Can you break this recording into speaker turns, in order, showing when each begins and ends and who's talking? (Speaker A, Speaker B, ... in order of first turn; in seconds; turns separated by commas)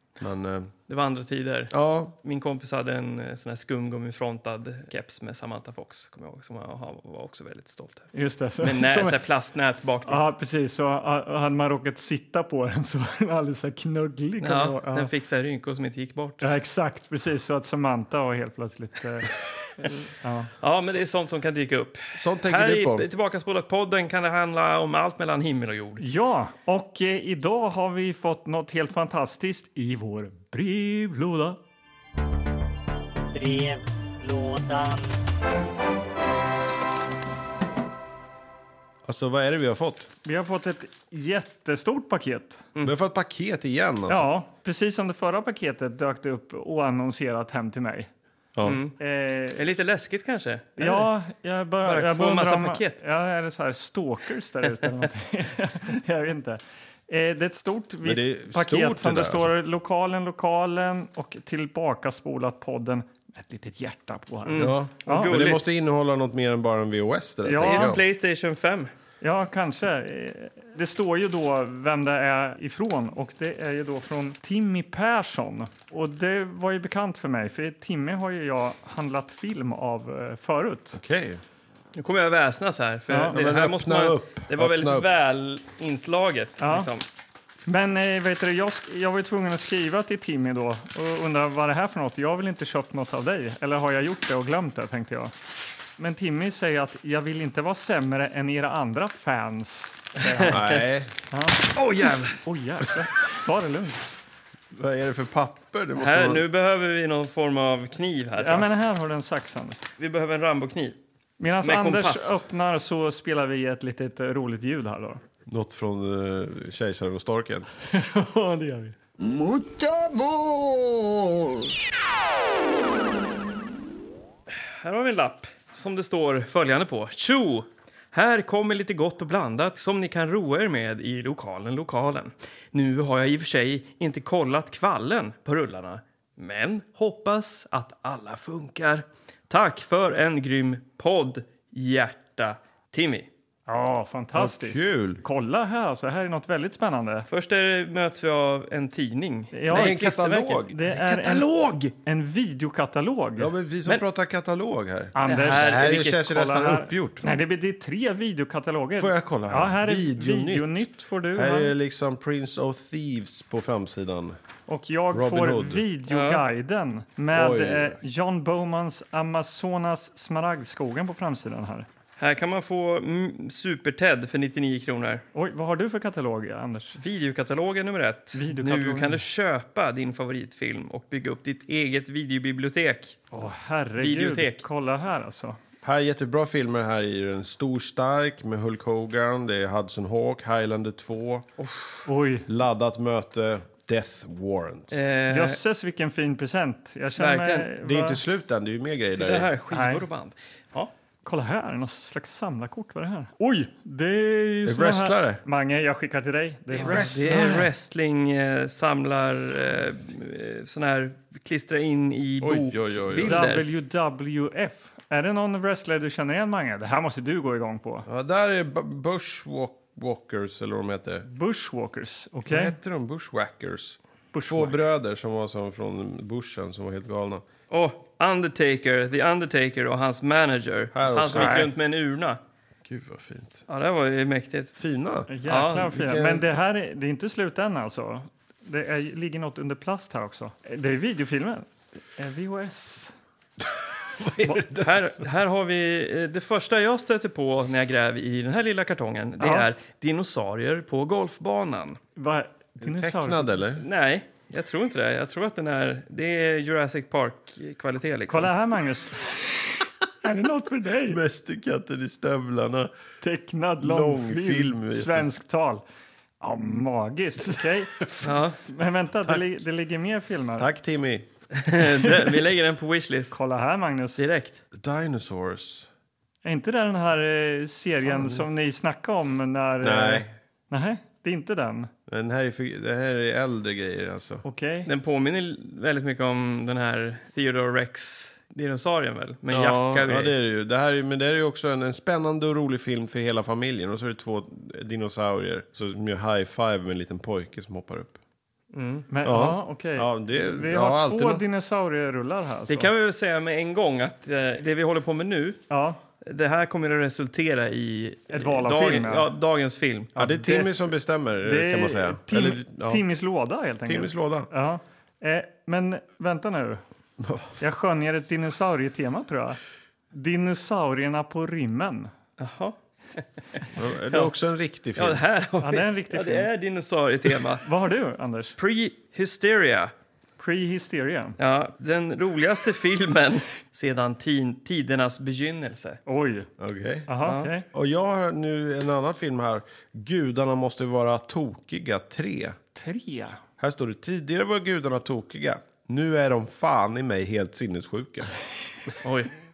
Speaker A: 0.2-0.7, Speaker B: 0.9-8.1, Speaker A: 1.7-2.1, Speaker C: 8.1-9.2, Speaker B: 8.6-10.2, Speaker C: 10.1-15.1, Speaker B: 14.4-16.5, Speaker C: 16.4-19.3, Speaker C: 20.2-20.5, Speaker B: 20.6-26.0, Speaker A: 22.2-23.1, Speaker C: 26.0-31.6, Speaker D: 33.3-35.1, Speaker A: 39.0-40.1, Speaker C: 40.2-42.6, Speaker A: 42.9-44.3, Speaker C: 44.1-48.1, Speaker B: 48.6-49.0, Speaker C: 49.0-49.6, Speaker B: 49.5-51.1, Speaker C: 50.8-65.4, Speaker B: 51.9-53.0, Speaker A: 58.0-59.5, Speaker B: 64.5-65.6, Speaker A: 64.6-68.0, Speaker C: 67.5-68.0, Speaker B: 67.6-68.9, Speaker C: 69.2-81.0, Speaker A: 81.0-81.4, Speaker B: 82.0-87.0, Speaker C: 83.1-83.4, Speaker A: 83.3-85.1, Speaker C: 86.6-86.9, Speaker C: 87.7-95.3, Speaker C: 96.0-100.6, Speaker B: 100.2-100.7, Speaker A: 100.5-101.1, Speaker C: 101.3-101.6, Speaker B: 101.7-102.4, Speaker C: 102.4-104.0, Speaker A: 104.7-106.5, Speaker B: 106.0-108.7, Speaker C: 108.4-109.8, Speaker B: 110.0-111.0, Speaker C: 111.4-115.2, Speaker B: 111.6-112.4, Speaker A: 115.5-117.7, Speaker C: 117.9-119.0, Speaker D: 119.4-120.9, Speaker B: 124.5-143.3, Speaker C: 143.7-147.3, Speaker A: 144.3-145.2, Speaker B: 147.3-151.9, Speaker C: 149.5-150.1, Speaker A: 149.7-150.8, Speaker C: 150.7-151.5, Speaker C: 152.1-153.5, Speaker A: 153.4-157.3, Speaker C: 155.2-161.7, Speaker B: 155.2-156.6, Speaker A: 159.0-164.4, Speaker C: 164.7-171.9, Speaker A: 165.1-165.8, Speaker B: 166.1-166.4, Speaker A: 167.3-168.0, Speaker B: 172.2-175.2, Speaker C: 175.3-177.0, Speaker B: 177.0-183.2, Speaker C: 178.3-179.2, Speaker C: 183.3-185.6, Speaker B: 184.0-184.6, Speaker A: 185.8-191.5, Speaker B: 191.6-192.1, Speaker C: 192.1-192.5, Speaker A: 192.5-195.0, Speaker B: 194.9-195.6, Speaker C: 195.3-198.2, Speaker B: 197.2-197.7, Speaker A: 197.8-199.5, Speaker B: 199.1-200.9, Speaker C: 199.7-200.1, Speaker C: 201.2-207.3, Speaker A: 204.7-205.4, Speaker B: 206.7-213.7, Speaker A: 206.8-207.7, Speaker A: 212.4-213.5, Speaker C: 213.2-218.1, Speaker A: 218.1-221.3, Speaker C: 221.3-222.8, Speaker A: 222.5-227.4, Speaker C: 224.3-224.8, Speaker B: 227.7-232.4, Speaker A: 230.9-231.6, Speaker C: 231.3-231.7, Speaker A: 232.8-233.7, Speaker B: 233.7-234.8, Speaker A: 234.8-236.5, Speaker C: 235.3-243.1, Speaker B: 235.4-235.9, Speaker A: 244.2-245.1, Speaker B: 244.7-252.0, Speaker C: 249.4-249.7, Speaker C: 252.2-253.6, Speaker A: 252.8-253.8, Speaker B: 253.8-258.5, Speaker C: 258.3-261.2, Speaker A: 261.1-262.9, Speaker C: 263.2-265.8, Speaker A: 263.8-265.3, Speaker C: 266.4-270.7, Speaker B: 268.2-268.6, Speaker A: 270.6-271.3, Speaker B: 271.5-273.4, Speaker C: 272.0-272.3, Speaker C: 273.3-274.2, Speaker B: 274.2-274.6, Speaker A: 274.7-275.9, Speaker C: 276.4-281.9, Speaker A: 278.1-278.5, Speaker A: 279.8-280.3, Speaker A: 282.1-284.4, Speaker C: 284.4-284.9, Speaker B: 284.9-290.4, Speaker A: 289.5-298.2, Speaker B: 298.7-299.1, Speaker C: 299.1-302.9, Speaker A: 299.2-301.4, Speaker B: 302.7-305.6, Speaker C: 305.7-306.0, Speaker B: 306.2-310.1, Speaker C: 308.3-309.3, Speaker C: 310.2-310.7, Speaker A: 310.2-313.0, Speaker C: 311.4-316.8, Speaker A: 313.9-314.5, Speaker A: 317.2-317.5, Speaker C: 317.6-319.6, Speaker C: 320.1-322.1, Speaker B: 322.4-323.6, Speaker A: 323.8-325.2, Speaker B: 325.0-327.6, Speaker C: 325.6-326.5, Speaker C: 327.6-328.6, Speaker B: 328.6-329.9, Speaker C: 330.4-331.4, Speaker B: 331.4-336.0, Speaker C: 336.1-336.5, Speaker A: 336.6-337.1, Speaker C: 337.1-337.7, Speaker B: 337.2-337.5, Speaker A: 337.7-342.6, Speaker C: 342.8-343.4, Speaker A: 343.6-348.3, Speaker B: 349.0-349.3